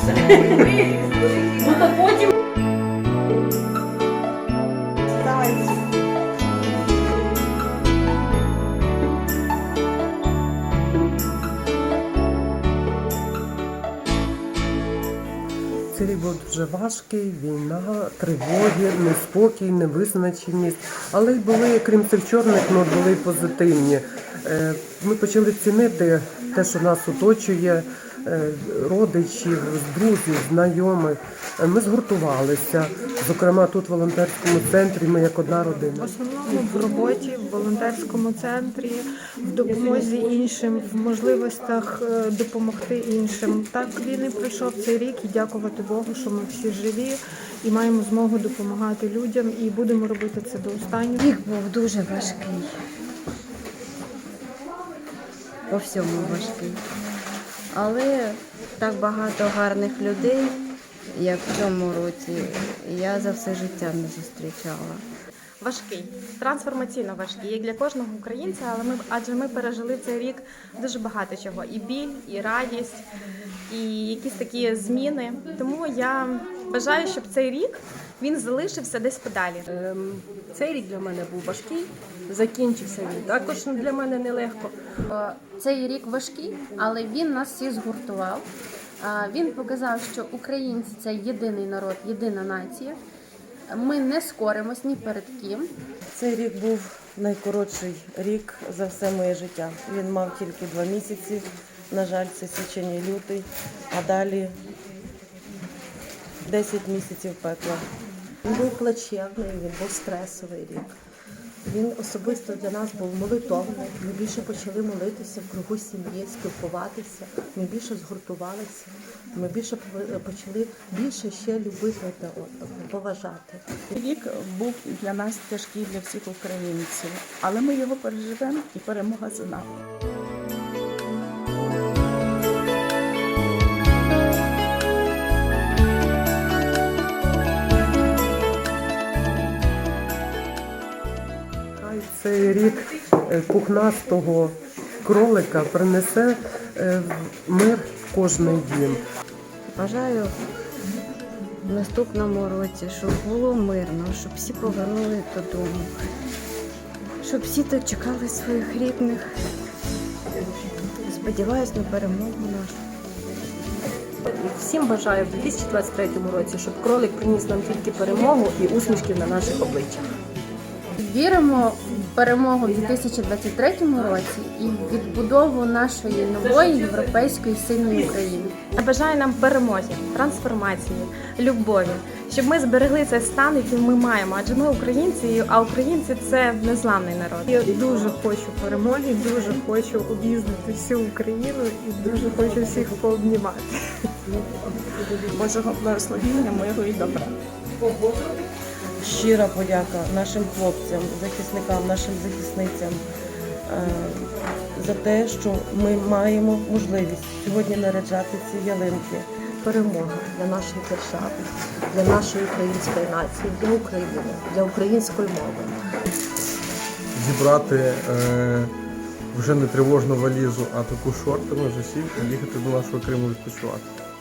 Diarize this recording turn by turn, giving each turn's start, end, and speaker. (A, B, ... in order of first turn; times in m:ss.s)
0:00.2-0:02.3 A
0:05.2-0:05.8 B
0:15.9-0:36.1 C
0:36.0-0:51.2 D
0:51.2-0:52.7 E
0:55.7-0:56.8 E
0:57.7-1:00.6 E
1:01.1-1:05.0 E
1:05.6-1:13.1 F
1:13.7-1:19.6 F
1:19.7-1:24.7 G
1:25.1-1:28.5 H
1:29.0-1:33.0 H
1:33.7-1:35.7 H
1:36.1-1:44.5 I
1:46.4-1:47.8 I
1:48.4-1:50.9 J
1:51.6-2:04.0 J
2:04.0-2:09.7 B
2:21.8-2:29.0 C
2:29.7-2:30.3 E
2:31.6-2:35.9 E
2:37.2-2:39.3 E
2:41.0-2:42.8 E
2:44.2-2:50.0 G
2:51.0-2:58.5 H
2:58.8-3:07.5 F
3:07.6-3:13.7 D
3:15.3-3:17.3 B
3:19.0-3:23.0 I
3:23.7-3:29.3 I
3:29.6-3:35.7 J
3:37.1-3:38.7 K
3:39.3-3:43.9 K